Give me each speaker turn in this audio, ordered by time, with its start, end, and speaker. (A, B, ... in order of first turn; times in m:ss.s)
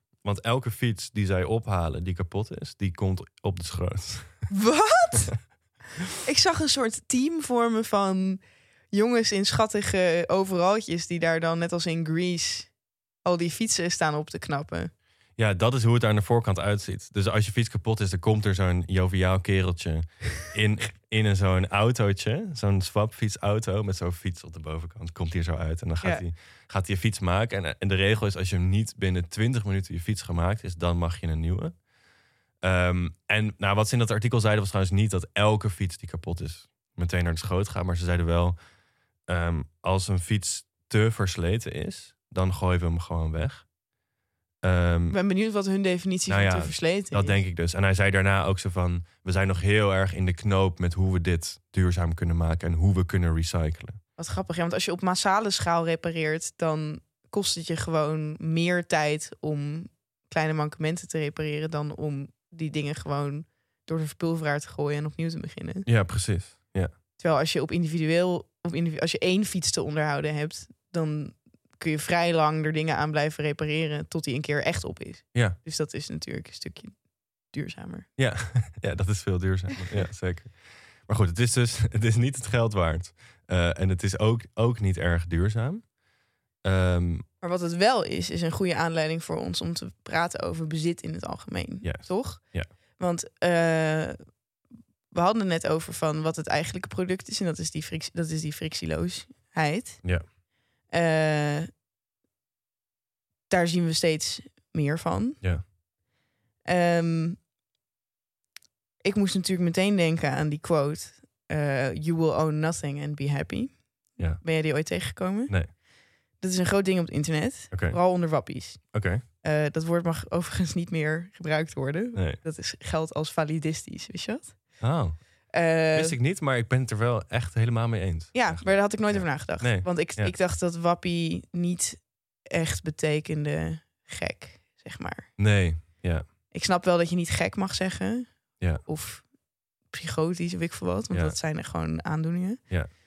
0:00.2-0:04.5 A
0:04.5-0:05.3 B
0:06.2-0:08.4 B
0:08.9-0:12.7 B
0:13.2-0:14.9 B
0:15.4-0:31.8 A
0:32.6-0:38.6 A
0:39.3-0:43.7 A
0:44.6-0:45.2 A
0:45.1-0:47.4 B
0:46.3-0:54.0 A
0:54.2-1:05.9 B
1:05.9-1:06.9 A
1:07.2-1:17.0 B
1:17.5-1:18.1 B
1:18.2-1:25.9 A
1:26.6-1:27.3 A
1:27.4-1:32.4 B
1:31.8-1:32.7 A
1:33.0-1:34.2 B
1:35.1-1:40.0 B
1:40.9-1:41.7 B
1:43.5-1:45.4 B
1:46.7-1:47.4 B
1:49.0-1:53.8 B
1:54.4-1:55.5 B
1:56.4-2:04.6 B
1:57.7-1:58.0 A
1:58.9-1:59.2 A
2:04.8-2:05.3 A
2:05.5-2:06.2 B
2:05.9-2:10.3 A
2:08.3-2:15.3 B
2:15.4-2:16.3 A
2:16.5-2:19.3 B
2:19.9-2:22.6 B